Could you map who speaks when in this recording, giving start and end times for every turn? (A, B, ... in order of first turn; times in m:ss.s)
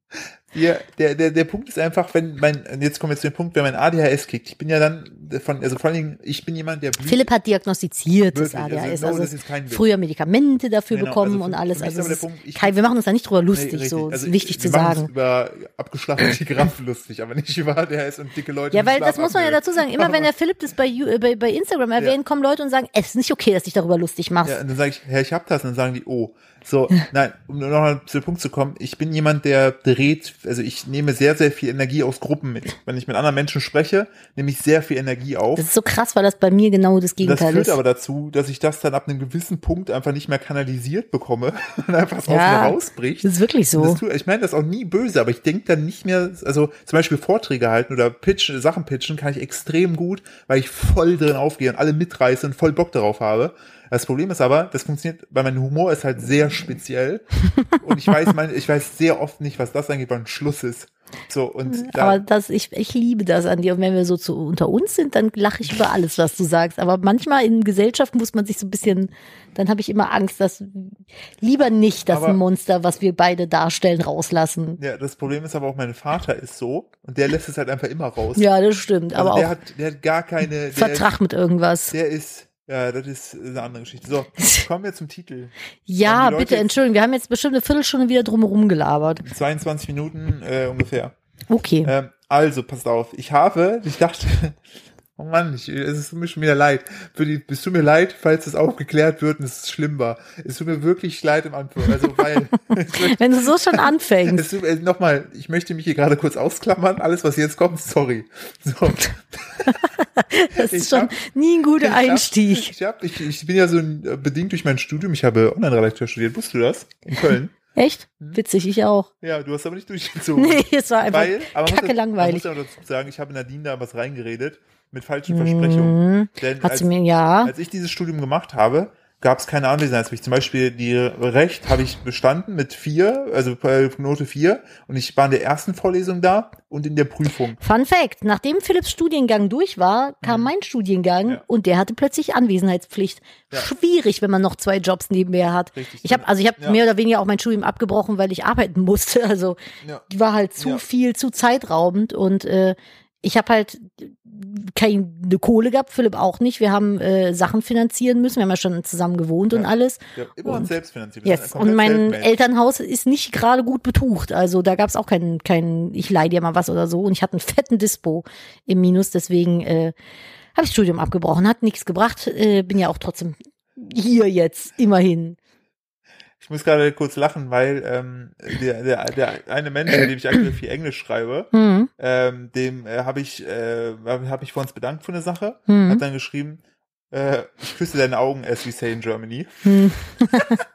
0:00.1-0:07.3 A
0:07.0-0:15.1 B
0:08.3-0:09.9 A
0:10.9-0:12.8 A
0:13.5-0:20.3 A
0:18.7-0:24.6 B
0:24.4-0:35.7 A
0:35.6-0:37.8 B
0:37.2-1:02.2 A
0:42.3-0:44.0 B
1:01.7-1:14.8 B
1:12.1-1:12.4 A
1:14.8-1:18.4 A
1:18.4-1:19.6 B
1:19.1-1:21.1 A
1:20.7-1:21.9 B
1:21.9-1:25.5 A
1:24.4-1:24.6 B
1:25.9-1:29.3 B
1:26.0-1:26.8 A
1:29.2-1:31.2 A
1:31.5-1:31.9 B
1:31.8-1:34.6 A
1:35.2-1:49.8 A
1:42.2-1:44.5 B
1:49.7-1:52.7 B
1:50.5-1:51.2 A
1:51.8-1:57.5 A
1:57.8-1:59.1 B
1:59.2-2:06.9 A
2:00.4-2:02.5 B
2:05.3-2:07.5 B
2:07.4-2:17.6 A
2:17.6-2:40.7 B
2:20.2-2:20.5 A
2:25.8-2:26.8 A
2:39.5-2:42.3 A
2:41.2-2:49.9 B
2:50.6-2:55.4 B
2:56.4-3:10.6 A
3:01.5-3:01.9 B
3:05.7-3:06.0 B
3:09.6-3:10.6 B